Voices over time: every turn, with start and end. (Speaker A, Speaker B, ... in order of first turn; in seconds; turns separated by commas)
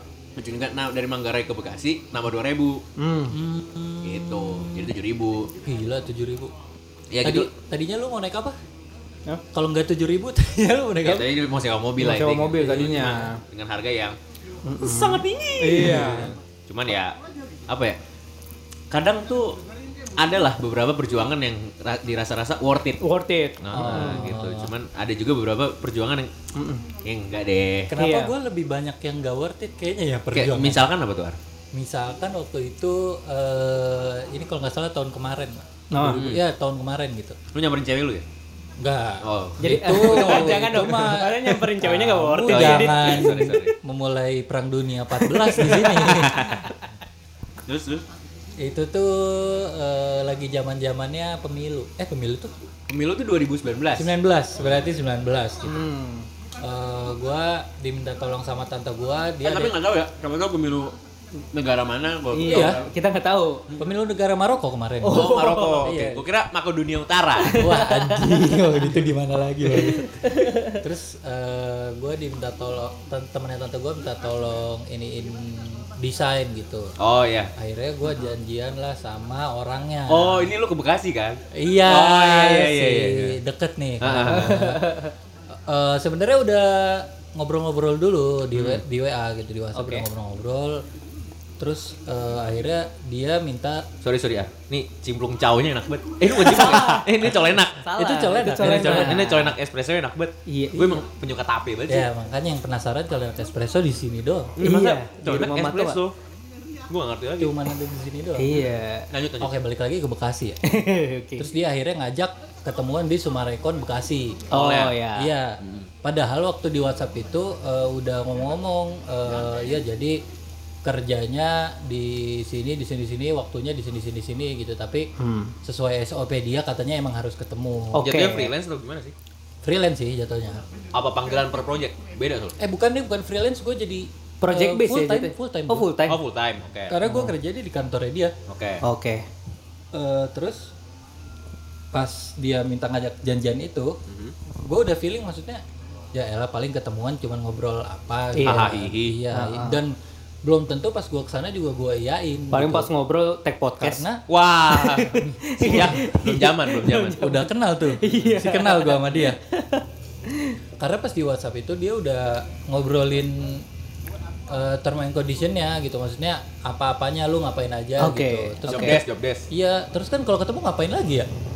Speaker A: 0.3-2.8, Speaker B: 3.0-3.4, Speaker C: 3.3-4.9, Speaker A: 4.0-5.5, Speaker C: 5.6-6.5, Speaker A: 7.1-7.5, Speaker C: 7.2-8.6, Speaker C: 9.5-11.3, Speaker A: 11.0-14.2, Speaker B: 12.0-13.4, Speaker B: 14.6-16.3, Speaker A: 14.8-17.2, Speaker C: 15.7-16.3, Speaker A: 17.7-18.0, Speaker A: 18.9-19.6, Speaker A: 20.2-23.0, Speaker B: 23.0-24.3, Speaker A: 23.6-26.3, Speaker C: 23.7-24.7, Speaker B: 26.5-26.9, Speaker A: 27.0-27.9, Speaker C: 27.9-30.9, Speaker B: 28.0-28.3, Speaker A: 30.3-31.4, Speaker C: 31.7-37.4, Speaker B: 35.9-36.3, Speaker A: 36.0-36.4, Speaker A: 37.5-38.2, Speaker C: 38.8-46.6, Speaker A: 39.2-40.7, Speaker B: 39.6-43.5, Speaker A: 42.4-43.7, Speaker B: 45.1-46.1, Speaker A: 45.9-46.7, Speaker A: 47.6-48.0, Speaker C: 48.6-52.5, Speaker A: 52.9-54.1, Speaker C: 53.9-55.7, Speaker B: 55.6-56.3, Speaker C: 56.6-59.8, Speaker A: 59.4-60.9, Speaker A: 61.5-62.9, Speaker B: 62.3-63.7, Speaker C: 62.5-62.8, Speaker C: 63.8-65.3, Speaker B: 65.0-65.9, Speaker A: 65.1-67.6, Speaker C: 65.8-66.2, Speaker B: 67.4-69.0, Speaker C: 67.6-76.9, Speaker B: 69.7-70.8, Speaker A: 77.0-77.5, Speaker C: 77.6-80.5, Speaker A: 80.1-83.4, Speaker C: 81.5-85.0, Speaker A: 84.0-84.7, Speaker B: 84.3-85.1, Speaker C: 85.6-90.8, Speaker A: 88.5-88.8, Speaker B: 89.8-90.1, Speaker C: 91.6-93.8, Speaker A: 94.0-97.9, Speaker B: 96.3-97.1, Speaker B: 97.8-99.5, Speaker C: 98.0-99.4, Speaker A: 98.7-102.1, Speaker B: 100.5-101.0, Speaker C: 101.9-104.6, Speaker A: 104.6-106.1, Speaker B: 104.6-106.0, Speaker A: 106.9-107.6, Speaker C: 107.4-108.6, Speaker B: 108.3-109.1, Speaker A: 108.6-109.5, Speaker C: 109.4-110.6, Speaker B: 110.6-111.5, Speaker C: 111.4-114.5, Speaker A: 114.5-115.0, Speaker B: 114.5-115.3, Speaker C: 115.2-120.2, Speaker A: 115.6-115.9, Speaker C: 120.8-125.1, Speaker B: 125.2-125.5, Speaker C: 125.6-128.1, Speaker B: 127.9-128.5, Speaker A: 128.0-129.1, Speaker C: 129.6-130.6, Speaker A: 130.9-132.6, Speaker C: 132.6-135.9, Speaker B: 134.4-136.2, Speaker A: 136.1-137.0, Speaker C: 136.9-138.3, Speaker B: 137.1-137.3, Speaker A: 138.5-138.8, Speaker B: 138.8-139.2, Speaker C: 139.9-140.7, Speaker C: 141.9-143.9, Speaker A: 144.1-144.3, Speaker C: 144.6-145.6, Speaker C: 146.1-149.9, Speaker B: 148.3-148.8, Speaker A: 148.4-149.2, Speaker B: 149.3-149.8, Speaker C: 150.4-152.9, Speaker B: 152.5-154.0, Speaker C: 153.8-154.2, Speaker A: 154.3-157.4, Speaker B: 154.7-157.5, Speaker C: 155.7-156.0, Speaker C: 157.2-159.4, Speaker B: 158.0-160.6, Speaker C: 160.8-163.6, Speaker C: 164.5-171.3, Speaker B: 168.0-169.0, Speaker A: 168.7-169.5